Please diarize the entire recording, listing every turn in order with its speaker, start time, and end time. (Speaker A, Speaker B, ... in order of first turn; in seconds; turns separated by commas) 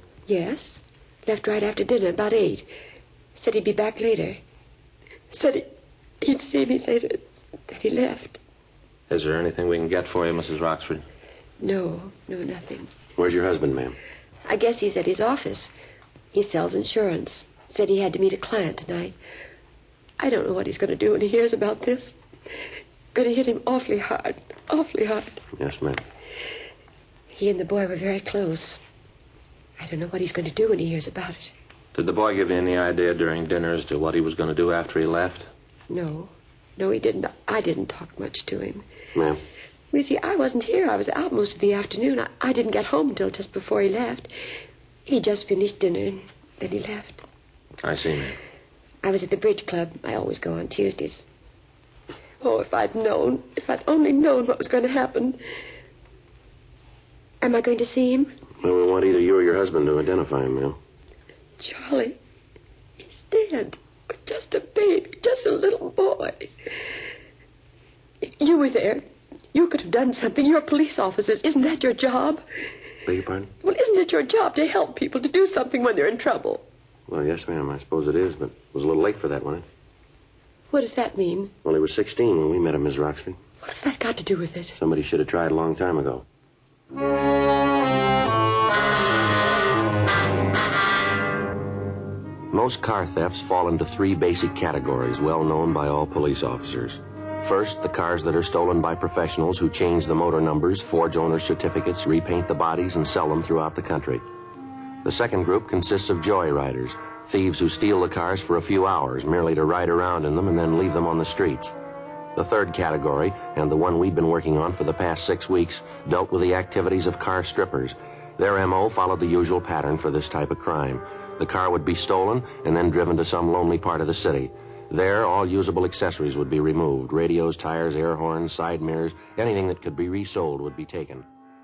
Speaker A: 0.3-2.7, Speaker A: 3.3-4.4, Speaker A: 5.3-8.4, Speaker B: 9.1-11.0, Speaker A: 11.6-12.9, Speaker C: 13.2-13.9, Speaker A: 14.5-15.7, Speaker A: 16.3-19.1, Speaker A: 20.2-22.1, Speaker A: 23.1-25.4, Speaker C: 25.5-26.0, Speaker A: 27.3-28.8, Speaker A: 29.8-31.5, Speaker B: 31.9-35.5, Speaker A: 35.9-38.8, Speaker C: 39.1-39.4, Speaker A: 39.9-44.3, Speaker A: 45.0-47.2, Speaker B: 47.8-48.4, Speaker A: 49.0-51.2, Speaker A: 52.4-55.4, Speaker A: 57.4-58.3, Speaker C: 58.6-60.8, Speaker A: 61.6-62.2, Speaker A: 63.0-66.5, Speaker A: 68.2-72.4, Speaker C: 73.0-73.5, Speaker A: 73.6-76.6, Speaker C: 77.1-79.7, Speaker A: 80.7-81.5, Speaker C: 81.6-83.4, Speaker A: 83.6-84.8, Speaker C: 84.8-86.2, Speaker C: 92.5-104.2, Speaker C: 105.0-111.7, Speaker C: 112.3-131.3